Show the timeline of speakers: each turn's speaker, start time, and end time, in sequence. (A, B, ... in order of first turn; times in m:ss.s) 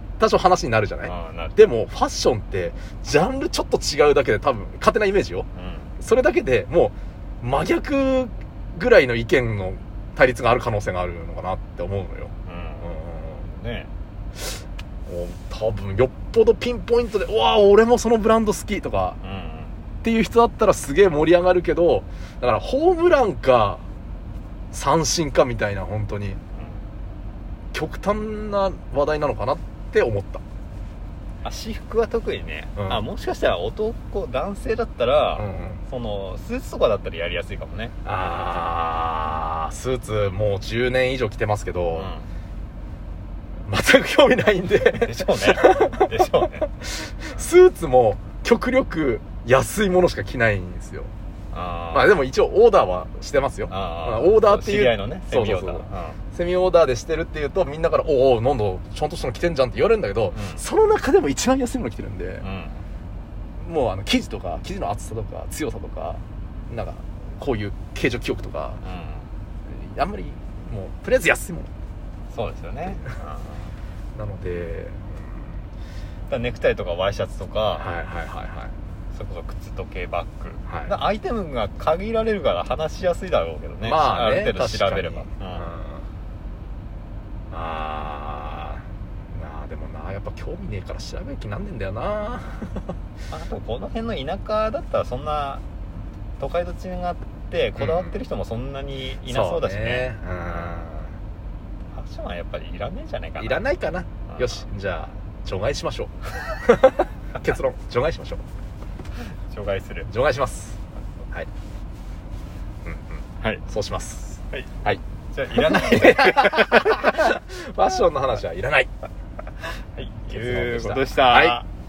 0:00.2-0:05.5 A
0:01.0-0:01.6 B
0:05.6-0:05.9 B
0:06.0-0:13.4 A
0:12.5-0:12.9 B
0:13.4-0:13.9 B
0:15.1-0:19.2 A
0:19.2-0:19.8 B
0:20.0-0:23.8 A
0:24.7-0:26.4 A
0:27.7-0:30.4 A
0:31.4-0:37.9 B
0:32.8-0:33.0 A
0:35.3-0:35.8 A
0:38.0-0:42.1 A
0:42.0-0:42.3 B
0:43.7-0:51.1 A
0:44.9-0:46.7 B
0:51.5-0:52.1 B
0:51.9-1:02.4 A
0:53.7-0:56.2 B
1:00.3-1:00.6 B
1:02.4-1:02.8 B
1:03.6-1:08.8 A
1:08.8-1:09.3 B
1:09.7-1:11.7 A
1:12.3-1:13.7 B
1:14.2-1:15.5 A
1:16.3-1:17.9 B
1:17.7-1:18.7 A
1:19.1-1:25.7 B
1:20.7-1:20.9 A
1:23.8-1:26.0 A
1:27.5-1:32.9 A
1:33.3-1:35.6 B
1:36.4-1:40.9 B
1:37.8-1:38.2 A
1:39.2-1:41.2 A
1:41.9-1:43.7 B
1:43.4-1:48.4 A
1:44.3-1:44.6 B
1:49.5-1:50.1 B
1:50.1-1:51.5 A
1:52.8-1:58.9 A
1:53.4-1:53.6 B
1:55.3-1:57.3 B
2:00.0-2:01.6 B
2:00.3-2:01.6 A